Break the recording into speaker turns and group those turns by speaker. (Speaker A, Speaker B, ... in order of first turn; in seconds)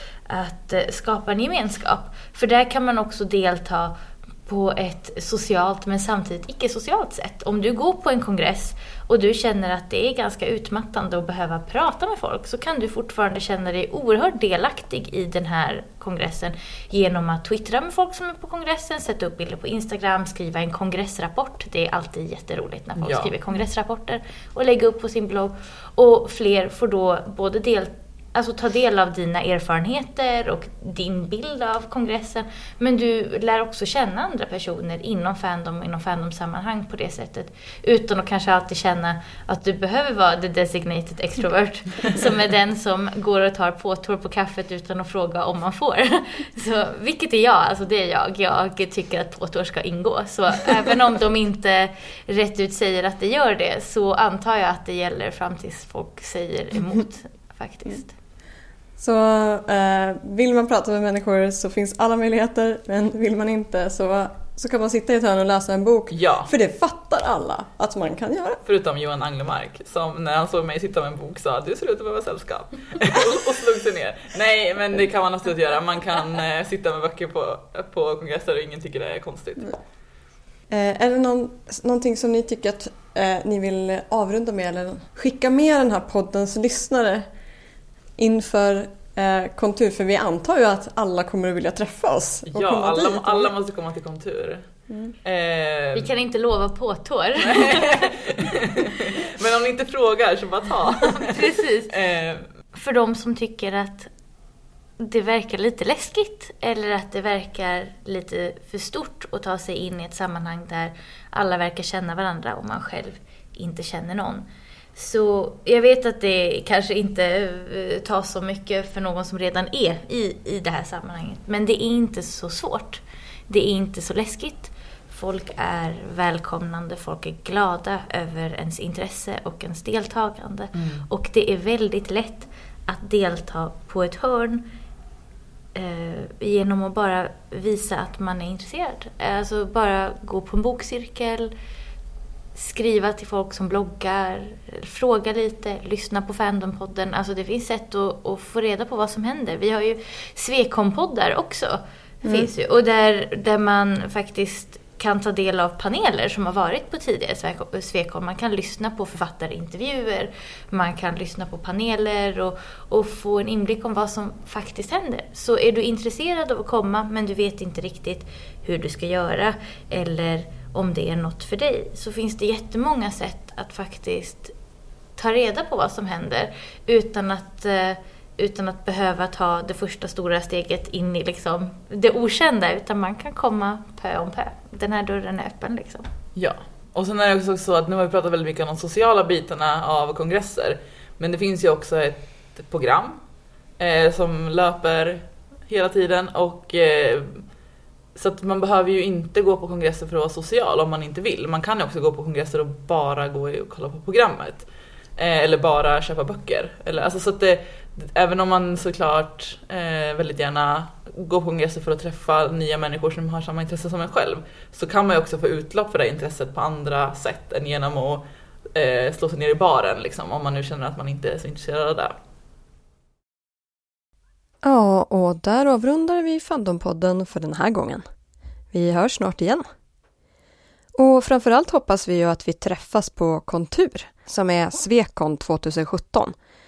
Speaker A: 0.3-58.1, 95.9-98.2, 101.2-101.9, 102.7-104.1, 105.0-134.7, 135.7-141.5, 142.5-174.5, 175.2-186.1
Speaker B: 23.0-23.3, 66.1-66.5, 68.6-79.8, 92.5-94.6, 95.2-96.1, 97.4-102.4, 130.7-131.0, 186.3-193.2, 193.8-197.4, 198.1-222.1
Speaker C: 59.0-68.6, 80.7-87.2, 88.2-93.5, 224.6-228.0, 228.7-229.6, 231.0-236.3